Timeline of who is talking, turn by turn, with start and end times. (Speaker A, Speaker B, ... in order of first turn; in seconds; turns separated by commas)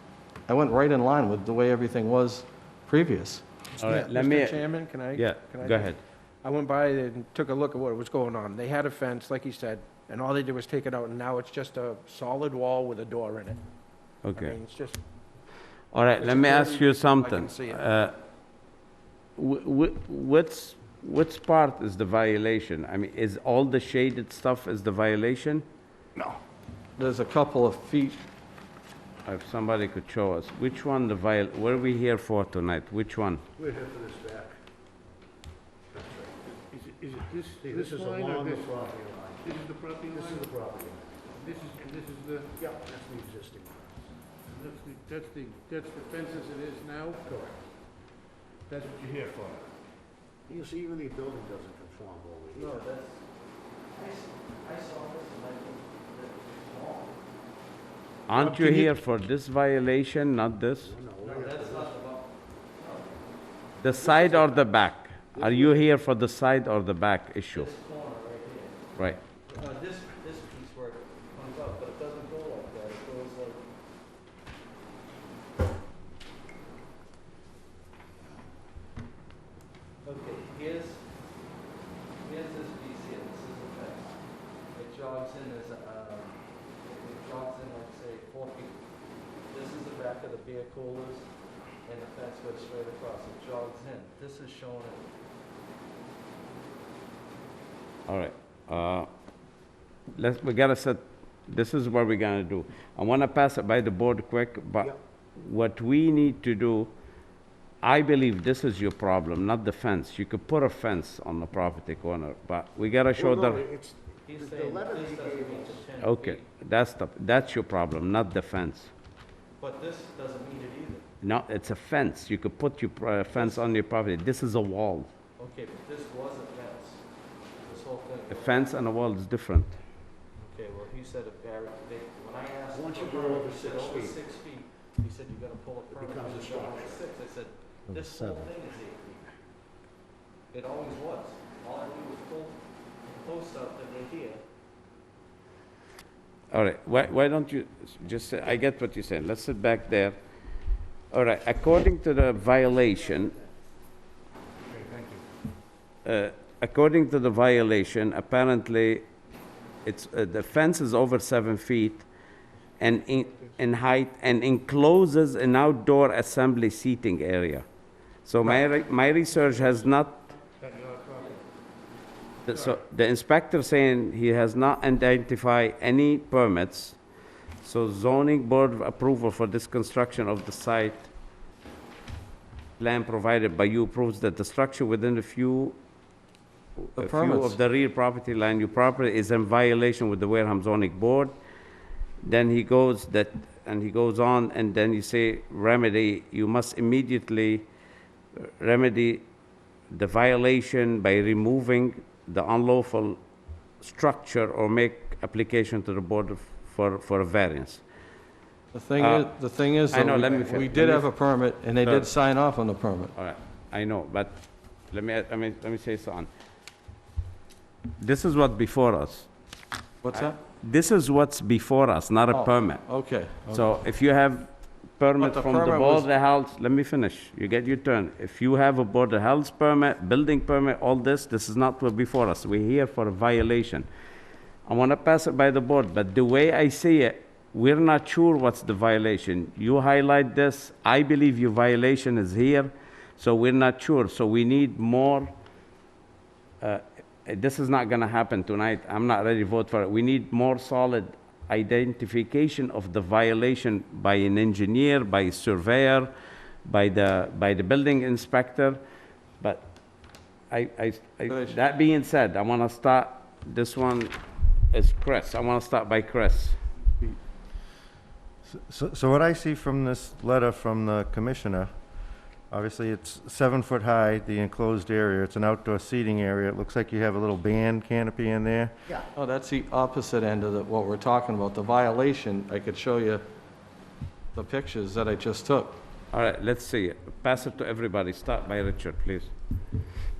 Speaker A: 0.5-3.4, Speaker B: 3.8-6.0, Speaker C: 3.8-13.6, Speaker B: 14.2-14.5, Speaker C: 14.3-15.0, Speaker B: 15.9-18.1, Speaker C: 16.2-17.8, Speaker B: 19.4-25.6, Speaker A: 27.0-28.2, Speaker B: 29.2-33.4, Speaker D: 33.6-34.6, Speaker D: 35.9-36.4, Speaker E: 36.5-38.8, Speaker D: 37.6-41.8, Speaker E: 39.4-40.5, Speaker E: 41.2-42.6, Speaker D: 42.6-44.1, Speaker E: 44.5-47.2, Speaker D: 47.2-47.7, Speaker E: 48.7-49.6, Speaker D: 49.1-49.5, Speaker D: 50.5-52.9, Speaker A: 52.5-53.3, Speaker A: 53.9-57.2, Speaker B: 58.3-60.9, Speaker E: 58.3-58.9, Speaker D: 60.8-62.0, Speaker A: 61.2-63.2, Speaker B: 63.8-67.7, Speaker D: 64.1-64.6, Speaker D: 65.4-65.8, Speaker A: 67.5-68.8, Speaker A: 69.5-73.6, Speaker A: 80.0-81.1, Speaker A: 82.2-88.8, Speaker A: 89.5-91.3, Speaker A: 91.8-95.0, Speaker B: 98.1-99.1, Speaker B: 100.1-106.9, Speaker B: 107.8-113.7, Speaker D: 113.1-115.9, Speaker A: 114.2-116.5, Speaker B: 116.0-118.9, Speaker A: 119.6-121.1, Speaker B: 121.2-125.1, Speaker A: 123.3-123.6, Speaker A: 125.4-127.0, Speaker A: 127.5-128.7, Speaker B: 128.3-129.7, Speaker A: 130.4-139.2, Speaker D: 132.7-134.2, Speaker D: 135.9-137.0, Speaker A: 140.5-144.4, Speaker B: 146.5-150.2, Speaker B: 151.1-153.4, Speaker D: 154.8-155.1, Speaker B: 156.0-159.0, Speaker B: 159.8-162.1, Speaker B: 162.8-167.7, Speaker B: 168.2-170.3, Speaker E: 169.4-169.8, Speaker E: 170.5-171.3, Speaker A: 171.1-171.4, Speaker B: 172.4-177.0, Speaker E: 172.4-172.8, Speaker B: 177.6-181.1, Speaker B: 182.8-185.8, Speaker B: 186.9-191.3, Speaker A: 187.0-187.6, Speaker B: 192.2-197.7, Speaker B: 198.4-199.2, Speaker B: 199.9-203.2, Speaker B: 203.8-207.8, Speaker A: 208.7-213.1, Speaker B: 209.0-211.1, Speaker B: 211.8-212.1, Speaker B: 213.1-216.3, Speaker B: 218.0-219.3, Speaker A: 220.0-220.4, Speaker B: 220.1-233.9, Speaker A: 222.3-223.6, Speaker A: 225.2-226.1, Speaker B: 234.7-245.3, Speaker B: 246.6-256.1, Speaker B: 256.6-258.8, Speaker B: 259.4-259.7, Speaker B: 260.5-264.1, Speaker A: 261.3-261.6, Speaker B: 264.7-266.6, Speaker F: 268.4-271.7, Speaker F: 272.5-278.7, Speaker A: 279.1-283.2, Speaker A: 284.3-285.8, Speaker B: 286.1-289.3